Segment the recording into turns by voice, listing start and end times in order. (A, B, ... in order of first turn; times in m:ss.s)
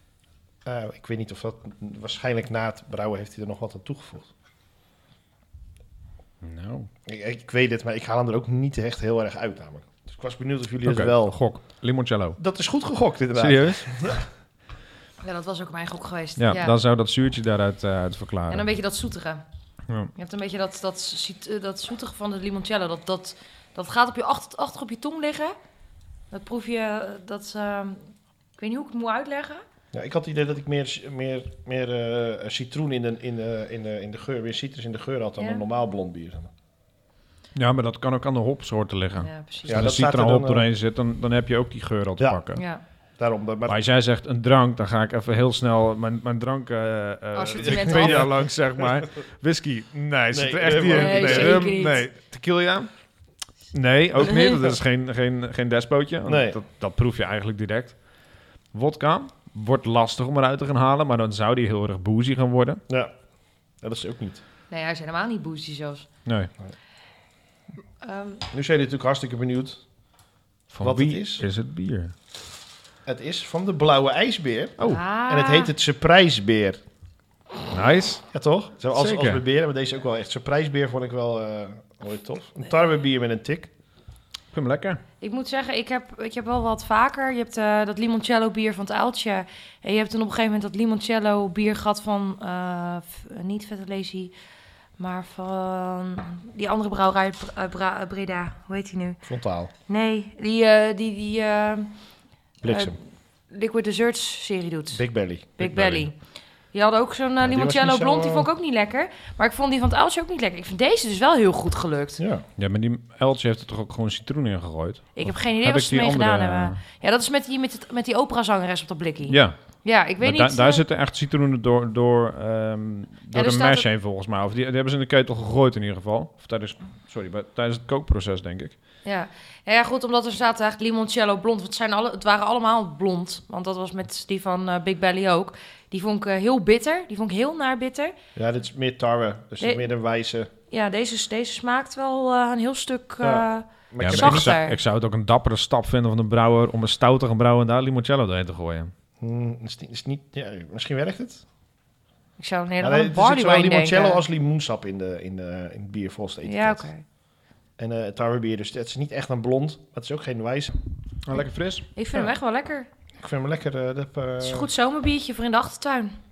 0:00.6-0:04.3 A
0:06.4-0:06.9 B
0:07.1-0:11.4 A
0:10.8-0:12.4 B
0:12.4-0:14.3 A
0:13.4-0:14.2 B
0:15.2-0:16.8 C
0:16.4-0:18.7 B
0:18.5-0:19.4 C
0:20.2-0:25.6 C
0:26.3-0:29.6 C
0:29.9-0:36.5 A
0:35.4-0:35.6 C
0:37.6-0:42.6 B
0:39.2-0:39.8 C
0:39.7-0:40.7 A
0:42.6-0:42.8 C
0:43.2-0:43.8 A
0:43.7-0:52.9 B
0:47.3-0:48.3 C
0:47.6-0:48.4 A
0:50.3-0:51.7 A
0:50.9-0:52.0 C
0:53.7-0:58.0 B
0:54.3-0:54.6 C
0:56.2-0:56.6 A
0:58.7-1:02.8 B
1:03.8-1:04.4 A
1:04.7-1:06.1 C
1:08.0-1:08.4 C
1:08.5-1:09.8 A
1:10.7-1:12.1 B
1:10.8-1:11.4 A
1:13.0-1:16.8 A
1:14.9-1:15.7 C
1:17.7-1:18.3 B
1:18.3-1:23.7 A
1:18.9-1:19.4 B
1:24.5-1:25.0 B
1:25.2-1:34.3 C
1:35.0-1:39.2 C
1:39.2-1:39.7 A
1:39.9-1:42.0 C
1:42.6-1:43.0 A
1:42.7-1:45.0 C
1:44.9-1:45.5 A
1:45.6-1:46.2 C
1:45.6-1:46.1 B
1:46.7-1:52.2 C
1:47.4-1:48.5 A
1:52.2-1:52.4 A
1:52.6-1:56.8 B
1:55.2-2:00.8 C
1:59.3-1:59.6 B
2:00.2-2:08.8 B
2:03.3-2:03.9 C
2:09.0-2:18.2 C
2:18.4-2:20.5 A
2:20.7-2:24.8 C
2:23.2-2:24.6 A
2:24.0-2:28.9 B
2:29.2-2:31.4 A
2:32.4-2:34.2 C
2:32.8-2:36.9 A
2:36.4-2:37.0 C
2:37.8-2:40.8 A
2:41.2-2:41.9 B
2:42.0-2:42.9 C
2:43.2-2:44.7 A
2:44.4-2:46.2 C